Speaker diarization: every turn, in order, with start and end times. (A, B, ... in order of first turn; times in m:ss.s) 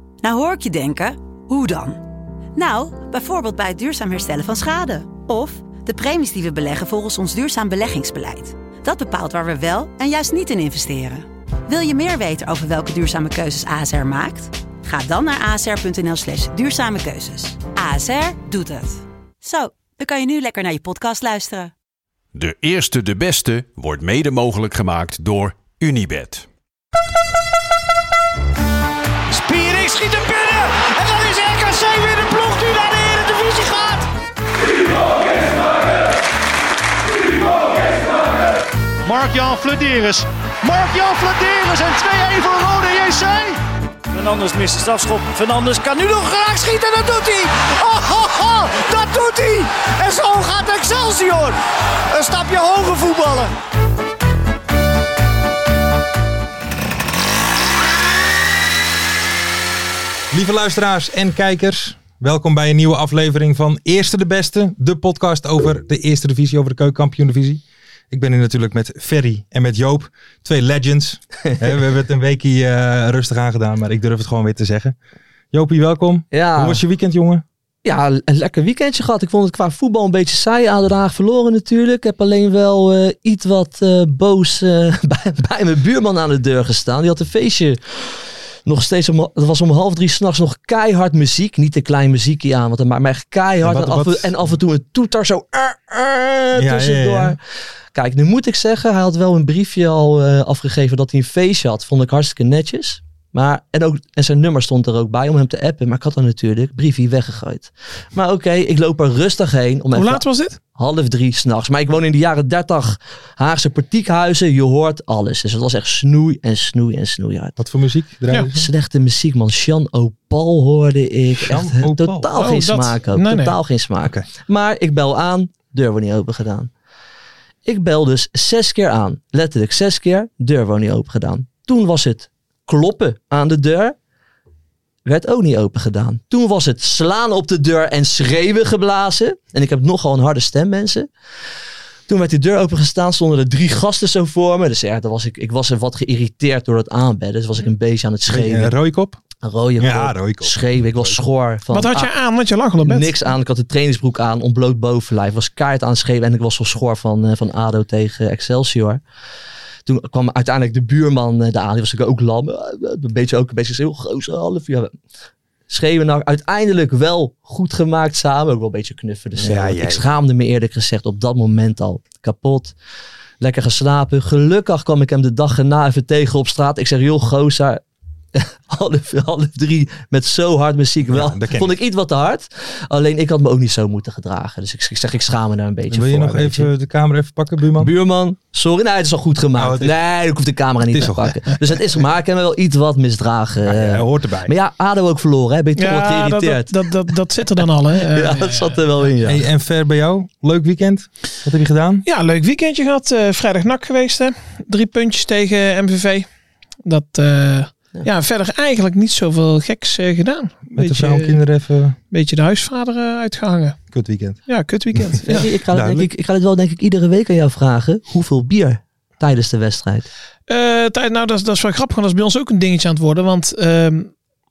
0:00.2-0:02.0 A
0:02.6-0:21.7 A
0:22.3-0:26.5 B
0:29.3-0:34.1 C
0:35.3-0:35.6 C
0:39.0-0:51.6 C
0:52.1-0:53.5 C
1:00.3-1:15.0 D
1:15.5-1:17.4 D
1:16.3-1:16.8 E
1:17.8-1:37.4 E
1:33.6-1:34.5 D
1:36.6-1:37.4 D
1:37.9-1:50.2 E
1:49.9-1:50.6 F
1:50.8-1:57.6 E
1:57.6-1:58.7 D
1:58.5-2:06.7 E
2:01.4-2:02.3 D
2:02.3-2:03.6 F
2:07.6-2:14.0 E
2:15.1-2:21.1 E
2:22.1-2:28.7 E
2:28.3-2:29.2 D
2:29.4-2:32.1 E
2:29.8-2:31.2 D
2:31.7-2:33.3 F
2:32.8-2:39.0 E
2:39.9-2:44.9 E
2:45.7-2:52.7 E
2:49.4-2:50.1 D
2:53.4-2:57.8 E
2:58.4-3:06.7 E
3:01.1-3:01.8 D
3:05.9-3:07.9 D
3:07.8-3:17.1 E
3:09.6-3:10.0 D
3:10.9-3:11.5 D
3:13.6-3:14.5 D
3:15.8-3:18.9 F
3:18.0-3:19.4 E
3:19.2-3:22.1 D
3:22.1-3:26.3 F
3:26.9-3:31.4 F
3:30.7-3:32.0 D
3:32.1-3:33.8 F
3:33.9-3:34.4 D
3:34.5-3:35.5 F
3:35.0-3:36.1 D
3:35.3-3:40.1 E
3:40.5-3:44.1 F